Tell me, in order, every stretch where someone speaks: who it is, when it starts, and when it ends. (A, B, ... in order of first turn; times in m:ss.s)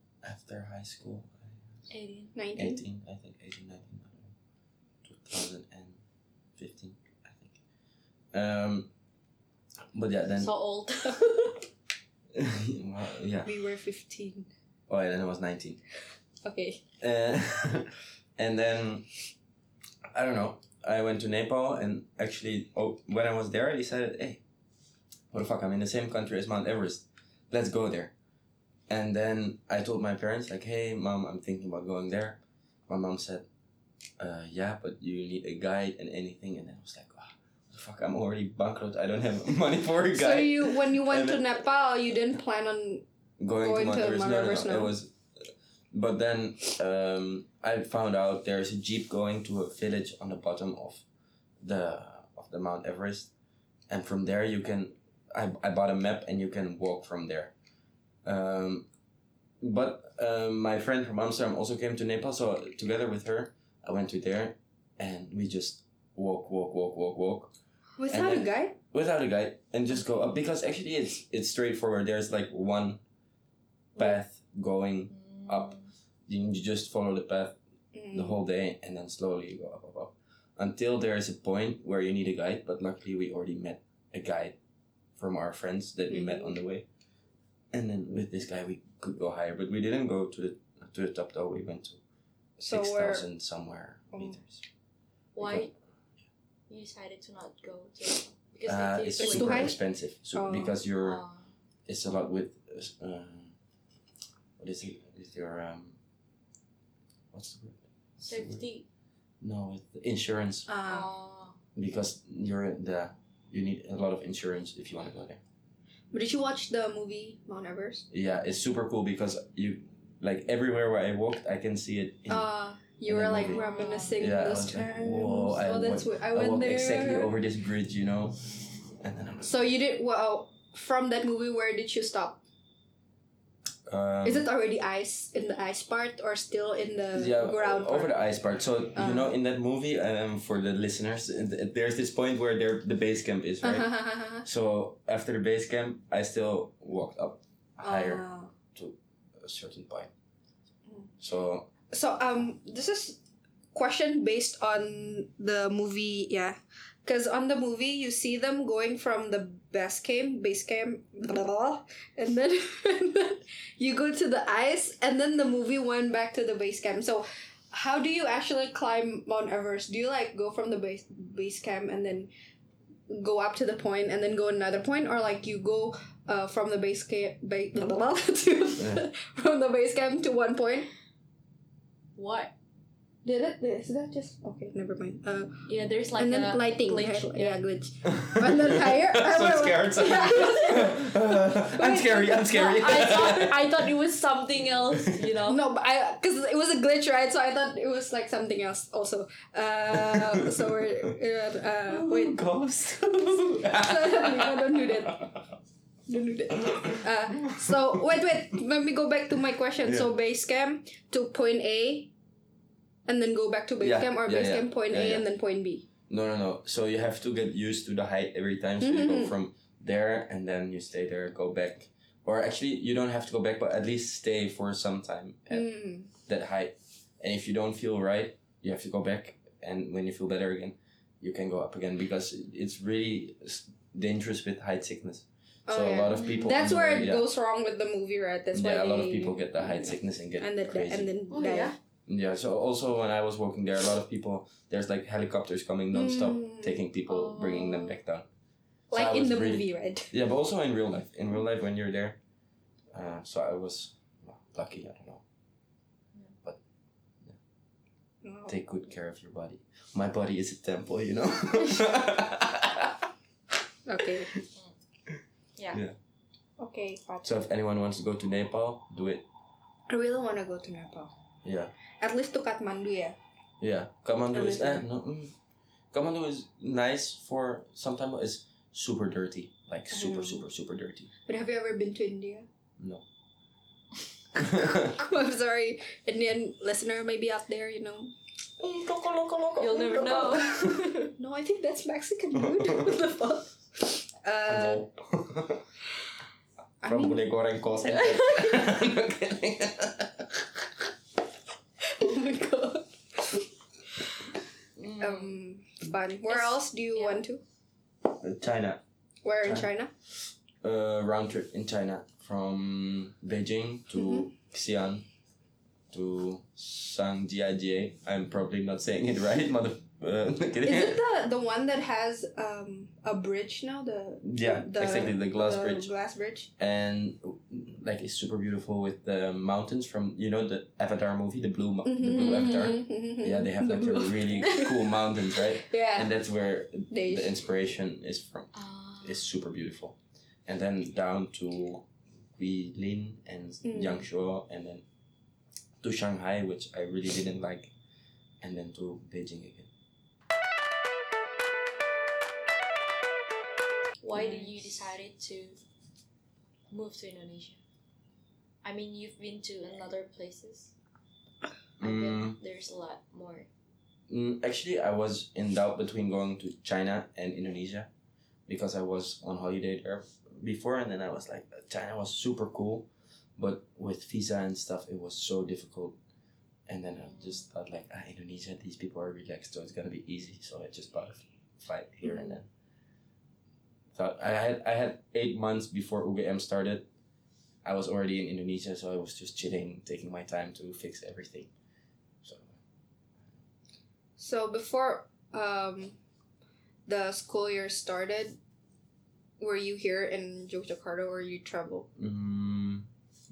0:00.2-0:01.6 A
0:01.9-0:02.4 B
0:02.4-0:02.8 C
0:02.6-0:04.3 A
0:05.0-0:06.0 A
0:06.6-0:07.6 A
0:08.3-0:08.9 A
0:09.9-0:10.5 A
0:10.4-0:11.6 B
0:12.4-0:13.5 A
0:13.4-0:14.5 C
0:14.9-0:15.8 A
0:16.4-0:16.8 C
0:17.0-0:19.1 A
0:20.1-0:24.4 A
0:25.3-0:28.1 A
0:28.9-0:33.5 A
0:34.2-0:41.4 A
0:40.1-0:43.0 C
0:43.4-0:51.0 A
0:43.6-0:44.9 C
0:51.6-0:53.3 A
0:53.9-0:57.5 A
0:58.2-0:58.9 A
0:59.6-1:07.5 A
1:08.0-1:08.8 C
1:08.1-1:13.0 A
1:14.0-1:15.8 A
1:15.2-1:15.9 B
1:16.3-1:17.6 A
1:17.9-1:18.4 C
1:18.1-1:24.6 A
1:25.2-1:26.9 A
1:26.1-1:26.5 C
1:27.7-1:32.0 A
1:32.6-1:34.6 A
1:32.6-1:33.3 C
1:34.1-1:34.4 C
1:35.4-1:35.7 B
1:35.4-1:35.7 A
1:36.7-1:39.8 B
1:38.7-1:41.2 A
1:39.2-1:39.8 C
1:40.3-1:40.8 C
1:41.0-1:41.5 B
1:41.9-1:43.6 A
1:44.6-1:46.0 A
1:47.3-1:48.6 A
1:48.3-1:48.9 B
1:49.4-1:50.7 A
1:50.7-1:51.1 C
1:50.8-1:51.6 B
1:51.8-1:55.4 A
1:56.1-1:58.1 C
1:58.1-2:02.5 A
2:02.3-2:07.3 C
2:03.0-2:03.6 A
2:03.4-2:04.2 B
2:04.2-2:08.4 A
2:09.0-2:09.6 A
2:09.4-2:12.4 C
2:13.9-2:14.5 A
2:14.2-2:18.1 C
2:17.2-2:30.1 A
2:19.0-2:19.3 C
2:23.6-2:24.4 C
2:27.8-2:28.5 C
2:31.2-2:31.7 A
2:31.9-2:33.2 C
2:33.7-2:52.3 C
2:53.1-3:00.9 C
2:58.8-2:59.1 A
3:02.2-3:02.5 B
3:03.2-3:12.6 C
3:05.7-3:07.6 B
3:08.0-3:13.9 A
3:12.3-3:15.6 B
3:15.4-3:22.4 C
3:19.9-3:20.6 A
3:21.9-3:25.4 A
3:23.7-3:25.2 C
3:26.1-3:32.1 C
3:26.6-3:28.3 A
3:29.8-3:30.1 A
3:33.1-3:35.9 C
3:33.8-3:35.3 A
3:36.1-3:57.3 A
3:38.8-3:39.3 C
3:45.5-3:46.1 C
3:55.7-3:59.8 C
3:56.1-3:56.5 B
3:58.5-4:01.1 A
4:00.4-4:01.8 C
4:01.3-4:01.8 B
4:02.1-4:08.3 A
4:05.9-4:06.8 C
4:07.1-4:08.0 B
4:08.9-4:10.1 C
4:08.9-4:12.2 A
4:12.9-4:15.2 A
4:18.2-4:18.6 C
4:18.5-4:23.1 A
4:23.9-4:24.3 C
4:25.1-4:26.0 A
4:26.6-4:27.3 C
4:27.2-4:29.2 A
4:29.9-4:31.1 C
4:31.4-4:31.7 A
4:32.0-4:33.2 C
4:33.6-4:35.4 A
4:34.3-4:34.8 C
4:35.9-4:41.1 A
4:39.9-4:40.4 C
4:41.3-4:42.5 C
4:42.8-4:43.0 A
4:44.4-4:45.0 A
4:44.4-4:48.1 C
4:48.6-4:51.1 B
4:49.6-4:54.9 C
4:52.4-4:53.0 A
4:54.5-4:55.6 A
4:56.8-4:57.3 C
4:56.8-5:00.5 A
4:57.8-4:58.6 C
5:01.8-5:03.4 C
5:04.8-5:05.4 B
5:05.0-5:07.4 C
5:06.3-5:07.2 B
5:08.2-5:08.8 A
5:09.2-5:09.9 C
5:09.4-5:09.7 A
5:10.6-5:15.1 A
5:13.9-5:14.3 C
5:15.9-5:21.0 A
5:20.6-5:26.5 C
5:24.2-5:25.9 A
5:26.6-5:44.8 A
5:31.8-5:36.1 C
5:36.9-5:37.4 C
5:38.5-5:39.3 B
5:43.6-5:44.1 C
5:45.8-5:47.7 A
5:48.4-5:49.7 A
5:54.0-5:55.6 B
5:54.1-5:54.6 C
5:56.7-5:57.6 B
5:58.6-6:00.7 B
6:01.8-6:02.4 A
6:01.8-6:03.5 B
6:04.1-6:07.9 A
6:08.5-6:16.0 A
6:16.7-6:22.5 A
6:17.1-6:17.4 B
6:24.0-6:26.9 A
6:27.6-6:31.5 A
6:32.2-6:32.6 A
6:34.2-6:36.0 C
6:36.9-6:38.4 C
6:39.4-6:41.9 C
6:42.0-6:42.9 A